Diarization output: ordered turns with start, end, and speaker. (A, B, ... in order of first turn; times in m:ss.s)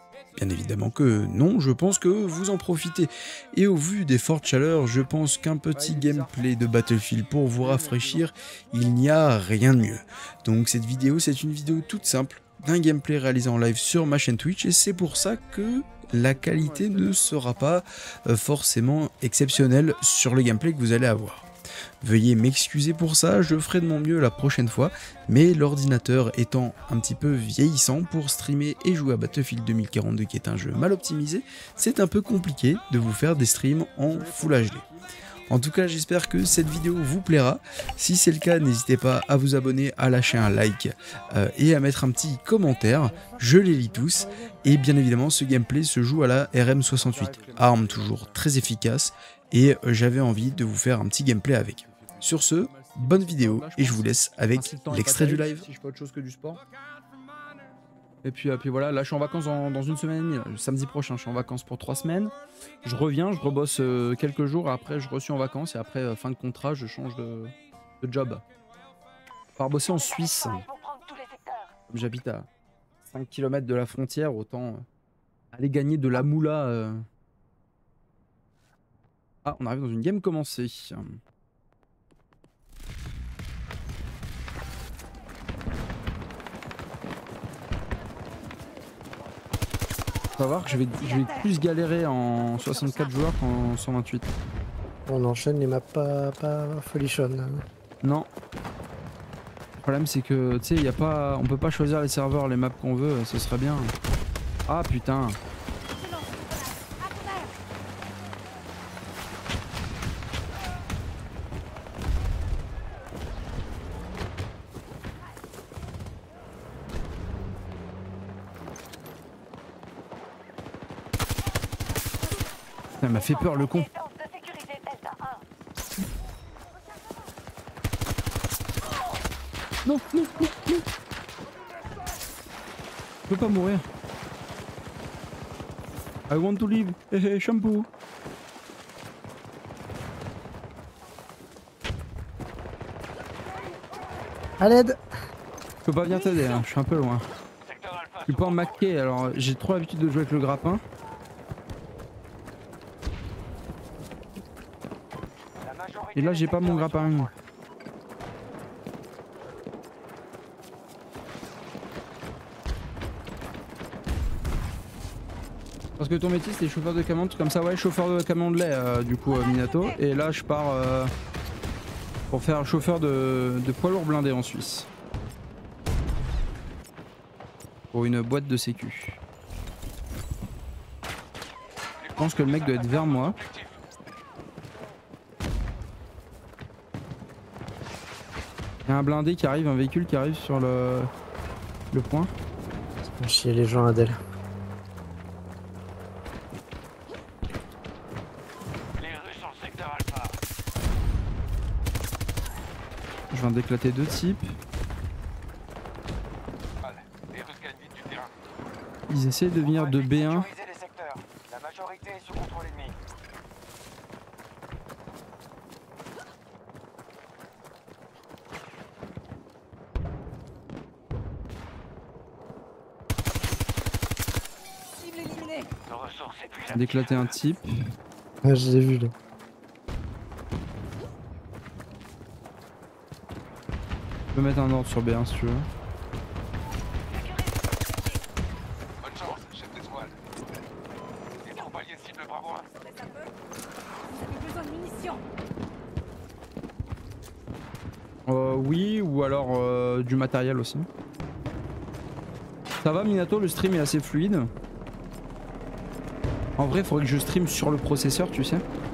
0:00.4-0:21.5 A
0:05.7-0:06.4 B
0:07.6-0:08.2 B
0:16.2-0:17.1 B
0:22.0-0:34.8 A
0:34.0-0:35.1 B
0:35.5-0:55.7 A
0:43.3-0:44.6 C
0:47.0-0:48.1 B
0:52.5-0:56.6 B
0:58.2-1:08.4 B
1:09.6-1:10.7 B
1:10.7-1:11.7 D
1:11.9-1:12.5 B
1:13.0-1:14.9 B
1:15.5-1:17.1 B
1:19.4-1:21.2 B
1:30.4-1:34.3 B
1:30.9-1:31.5 E
1:32.7-1:33.1 E
1:35.1-1:37.6 C
1:38.0-1:38.3 B
1:39.8-1:43.9 B
1:44.7-1:45.4 B
1:46.0-1:47.5 E
2:03.0-2:03.9 B
2:03.9-2:05.4 D
2:09.8-2:10.8 B
2:13.3-2:13.9 B
2:16.3-2:17.9 B
2:24.6-2:25.0 C
2:25.8-2:27.3 B
2:27.6-2:28.3 D
2:28.2-2:30.8 B
2:35.8-2:37.1 D
2:36.1-2:37.3 B
2:46.0-2:51.1 B
2:49.5-2:50.0 E
2:52.3-2:54.9 B
2:57.9-2:59.2 B
3:02.2-3:03.5 B
3:08.9-3:11.1 B
3:11.9-3:12.3 B
3:13.0-3:14.2 C
3:19.0-3:20.3 D
3:23.3-3:24.6 B
3:26.9-3:28.3 D
3:29.1-3:30.5 B
3:29.8-3:32.9 D
3:45.0-3:45.7 E
3:45.9-3:47.1 D
3:46.7-3:47.7 B
3:48.4-3:49.1 C
3:54.3-3:55.7 B
3:59.0-4:00.1 D
4:01.5-4:02.7 D
4:02.7-4:03.3 E
4:04.1-4:05.2 E
4:08.3-4:10.9 B
4:12.8-4:14.5 B
4:16.6-4:18.6 B